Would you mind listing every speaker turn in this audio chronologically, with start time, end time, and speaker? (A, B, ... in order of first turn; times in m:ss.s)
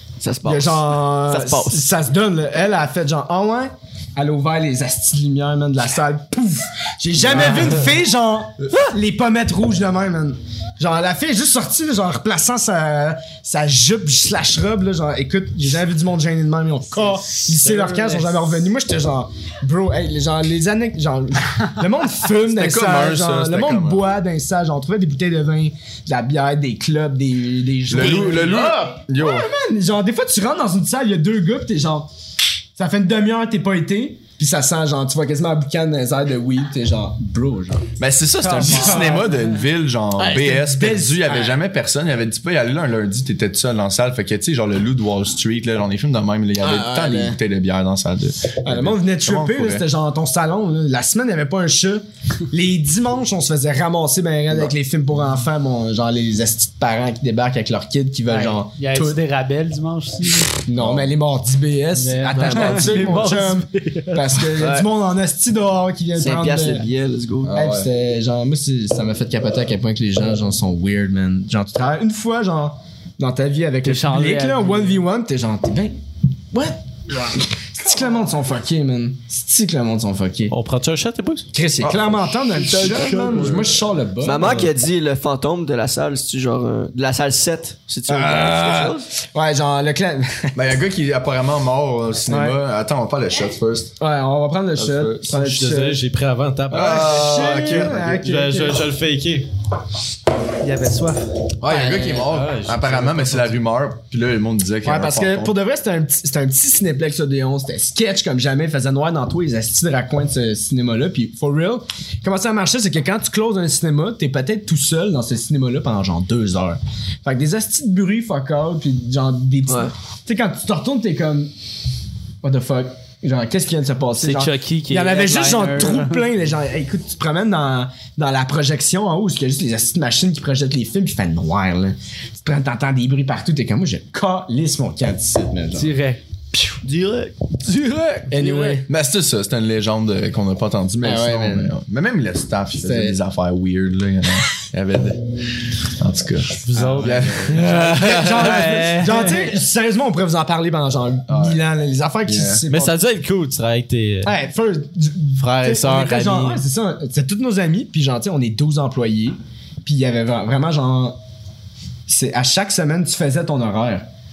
0:00.2-0:01.8 A
0:00.4-0:32.1 B
0:17.4-0:18.3 C
0:22.4-0:24.1 D
0:27.9-0:29.5 D
0:32.8-0:37.9 B
0:38.0-0:49.9 D
0:38.4-0:39.5 E
0:38.6-0:39.2 B
0:40.2-0:41.6 B
0:46.6-0:47.4 B
0:48.6-0:59.2 B
0:58.3-1:00.6 E
1:00.7-1:06.9 B
1:00.8-1:01.1 D
1:02.0-1:04.4 E
1:02.4-1:03.0 A
1:04.6-1:04.9 A
1:06.2-1:07.6 A
1:07.5-1:07.9 D
1:07.5-1:16.0 B
1:13.8-1:15.0 E
1:16.5-1:20.5 B
1:20.5-1:21.5 C
1:21.5-1:24.7 B
1:21.8-1:23.8 D
1:23.3-1:23.6 C
1:24.2-1:29.1 A
1:28.1-1:30.6 B
1:30.6-1:34.0 D
1:32.3-1:32.6 B
1:34.0-1:36.0 B
1:34.8-1:35.2 D
1:35.3-1:39.5 C
1:36.7-1:38.1 D
1:36.7-1:38.9 B
1:40.6-1:41.2 E
1:41.6-1:45.5 D
1:41.6-1:42.2 B
1:42.0-1:43.6 C
1:44.8-2:01.5 B
1:59.7-1:59.9 A
2:02.4-2:15.9 B
2:04.2-2:06.3 E
2:15.7-2:16.2 E
2:16.8-2:17.3 A
2:17.7-2:18.7 E
2:18.3-2:18.9 B
2:18.9-2:25.2 D
2:21.0-2:21.7 B
2:22.7-2:23.2 B
2:25.8-2:27.9 D
2:26.7-2:29.5 E
2:26.8-2:33.0 B
2:27.6-2:28.8 C
2:31.3-2:31.6 D
2:32.2-2:32.6 D
2:32.7-2:34.3 C
2:34.2-2:41.2 B
2:35.4-2:36.6 C
2:42.1-2:44.0 B